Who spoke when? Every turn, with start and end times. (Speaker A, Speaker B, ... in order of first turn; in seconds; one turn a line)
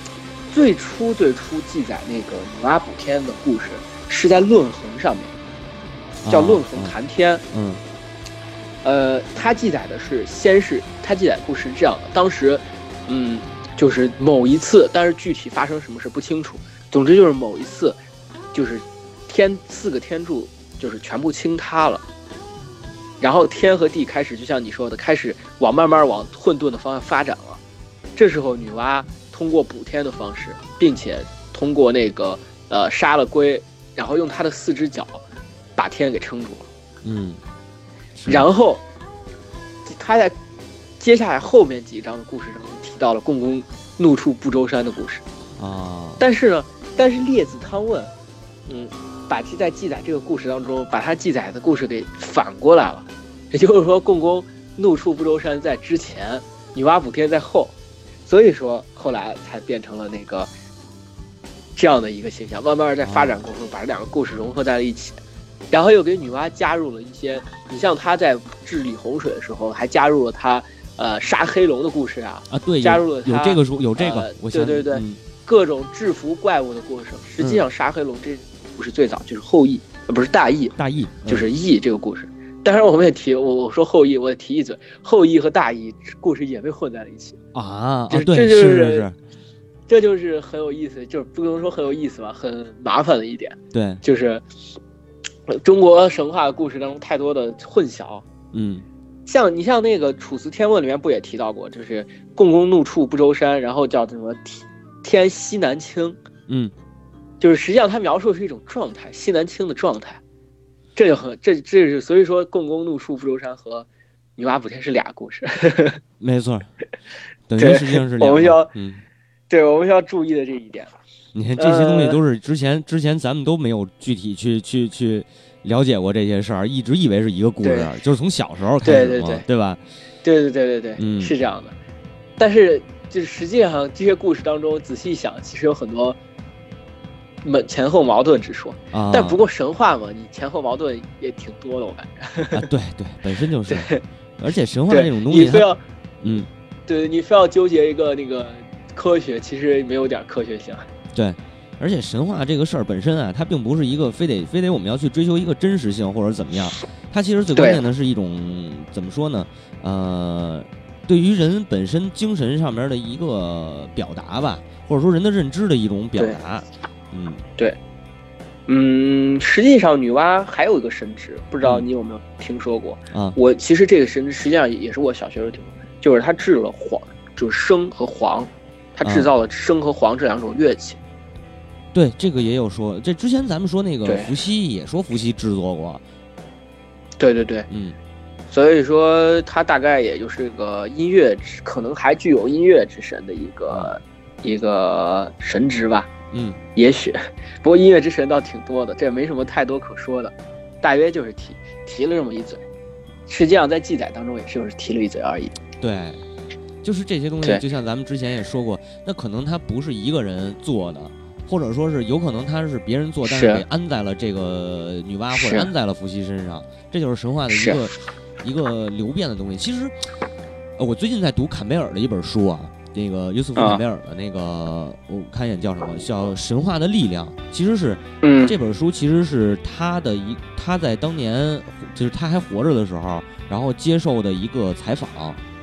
Speaker A: 0.5-5.3
Speaker B: 6.2-6.9
Speaker A: 6.3-7.4
Speaker B: 7.5-7.8
Speaker A: 8.8-18.0
Speaker A: 18.5-22.0
Speaker A: 23.2-27.6
Speaker A: 28.2-35.2
Speaker A: 35.8-36.7
Speaker B: 37.0-37.4
Speaker B: 38.2-38.5
Speaker A: 38.3-38.8
Speaker A: 39.9-40.4
Speaker A: 41.0-45.2
Speaker B: 45.6-46.2
Speaker A: 46.2-48.1
Speaker A: 48.7-57.7
Speaker A: 58.3-60.5
Speaker A: 61.8-65.2
Speaker B: 63.0-63.4
Speaker A: 65.7-80.8
Speaker B: 72.5-75.2
Speaker B: 80.8-81.5
Speaker A: 81.3-87.4
Speaker B: 87.5-89.2
Speaker A: 88.1-89.1
Speaker A: 89.9-94.4
Speaker B: 93.7-94.0
Speaker A: 95.5-98.2
Speaker B: 98.5-98.8
Speaker A: 99.3-106.2
Speaker B: 106.5-106.7
Speaker A: 107.4-110.2
Speaker A: 111.0-116.0
Speaker B: 116.2-116.7
Speaker B: 117.5-119.0
Speaker A: 117.6-118.7
Speaker A: 119.5-120.9
Speaker B: 121.3-129.8
Speaker A: 121.6-122.2
Speaker A: 127.6-127.9
Speaker A: 128.8-129.4
Speaker A: 130.2-131.8
Speaker B: 131.0-131.3
Speaker A: 132.4-136.2
Speaker A: 137.4-142.6
Speaker B: 138.9-139.4
Speaker B: 142.5-145.7
Speaker A: 143.7-144.0
Speaker A: 144.9-145.8
Speaker B: 146.2-146.5
Speaker A: 146.9-150.8
Speaker B: 151.1-167.4
Speaker A: 157.6-157.8
Speaker A: 168.7-181.0
Speaker B: 173.1-173.4
Speaker B: 179.0-179.3
Speaker B: 181.9-186.0
Speaker A: 184.1-184.3
Speaker A: 187.2-187.7
Speaker B: 187.7-188.0
Speaker A: 188.5-196.1
Speaker B: 196.3-196.6
Speaker A: 196.8-202.6
Speaker A: 203.3-205.6
Speaker B: 205.8-206.2
Speaker B: 206.8-219.9
Speaker A: 213.2-213.6
Speaker A: 215.3-215.7
Speaker A: 217.5-217.8
Speaker B: 220.8-235.4
Speaker A: 223.6-223.8
Speaker A: 228.2-228.6